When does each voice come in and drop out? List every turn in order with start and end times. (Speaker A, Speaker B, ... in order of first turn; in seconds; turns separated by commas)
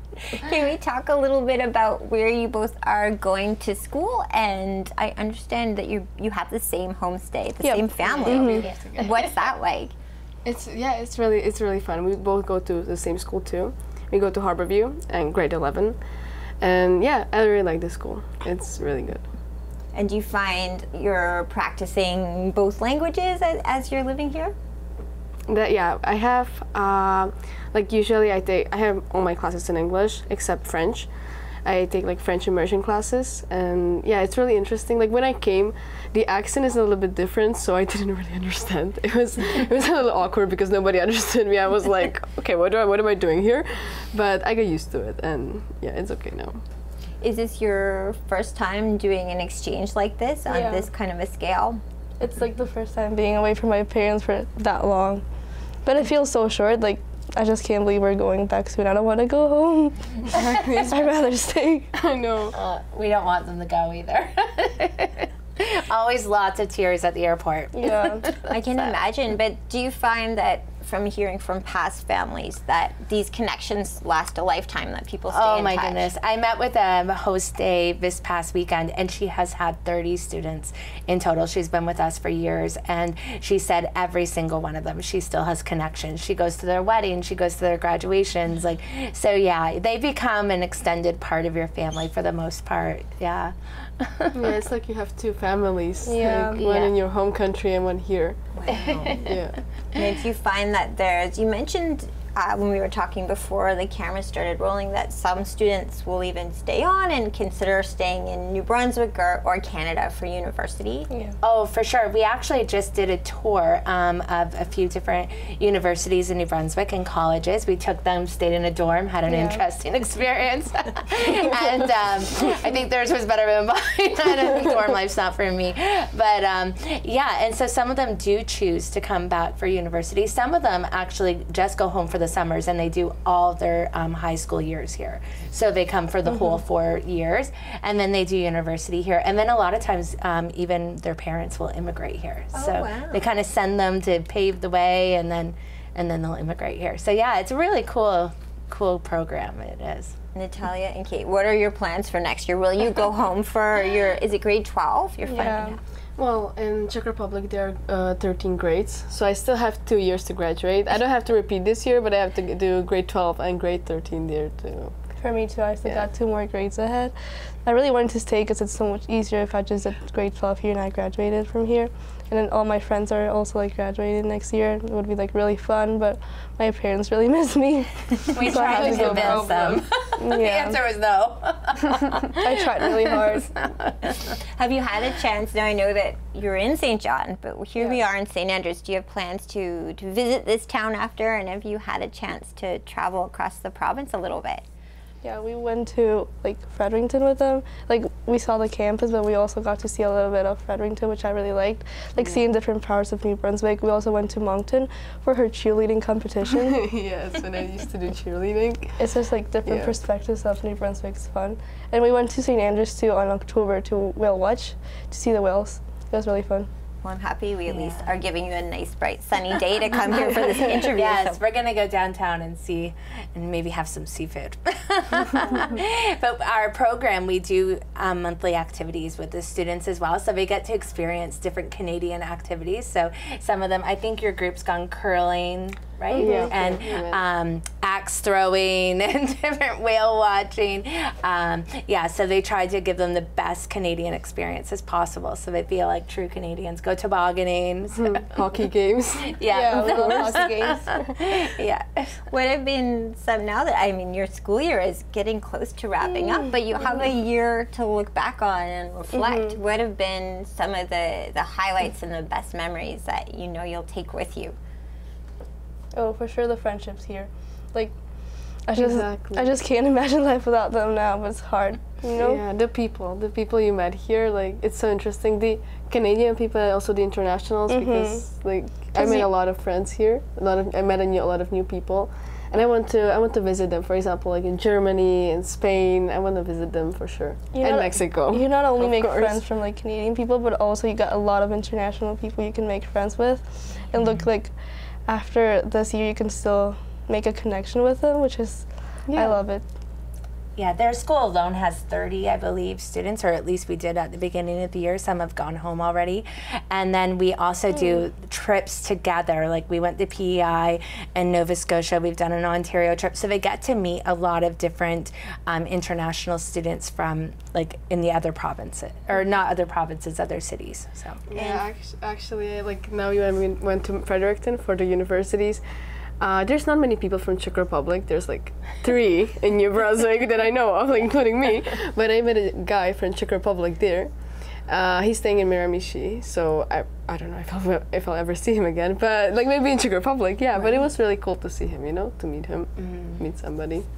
Speaker A: 0.3-9.9, Speaker B: 7.6-8.7, Speaker C: 8.0-9.2, Speaker C: 10.4-19.3, Speaker A: 19.9-24.5, Speaker C: 25.5-31.1, Speaker C: 31.6-46.6, Speaker A: 47.2-51.8, Speaker B: 50.5-50.9, Speaker B: 52.2-55.2, Speaker B: 55.8-61.9, Speaker C: 60.3-61.0, Speaker C: 61.9-62.5, Speaker D: 62.5-68.9, Speaker B: 67.7-68.3, Speaker A: 68.5-76.1, Speaker D: 75.3-94.5, Speaker C: 94.3-98.4, Speaker B: 96.0-96.7, Speaker D: 96.5-96.9, Speaker A: 98.5-99.3, Speaker D: 98.7-99.3, Speaker C: 99.2-99.6, Speaker A: 99.9-111.1, Speaker B: 111.1-111.3, Speaker D: 111.4-150.2, Speaker B: 119.3-119.6, Speaker A: 142.5-143.2, Speaker A: 150.3-155.8, Speaker B: 155.3-155.8, Speaker C: 156.2-164.9, Speaker B: 165.2-167.1, Speaker B: 167.6-179.6, Speaker D: 178.3-184.4, Speaker C: 178.4-179.8, Speaker B: 180.2-180.8, Speaker B: 182.4-183.5, Speaker A: 184.5-194.6, Speaker B: 195.2-206.8, Speaker C: 206.6-209.1, Speaker B: 209.0-216.7, Speaker C: 209.6-209.9, Speaker A: 217.0-221.4, Speaker D: 220.6-248.2, Speaker B: 236.1-236.5, Speaker C: 236.2-237.2, Speaker C: 248.0-250.3, Speaker D: 249.3-252.2, Speaker B: 249.5-251.0, Speaker A: 252.3-264.6, Speaker B: 259.1-259.6, Speaker B: 265.9-267.9, Speaker B: 268.6-272.4, Speaker C: 268.8-269.5, Speaker C: 272.2-289.4, Speaker B: 277.7-278.3, Speaker B: 278.8-279.3, Speaker B: 287.5-294.5, Speaker B: 295.1-299.6, Speaker D: 300.6-321.6, Speaker B: 307.7-308.0, Speaker C: 321.3-325.6, Speaker C: 326.2-343.8, Speaker D: 342.8-343.2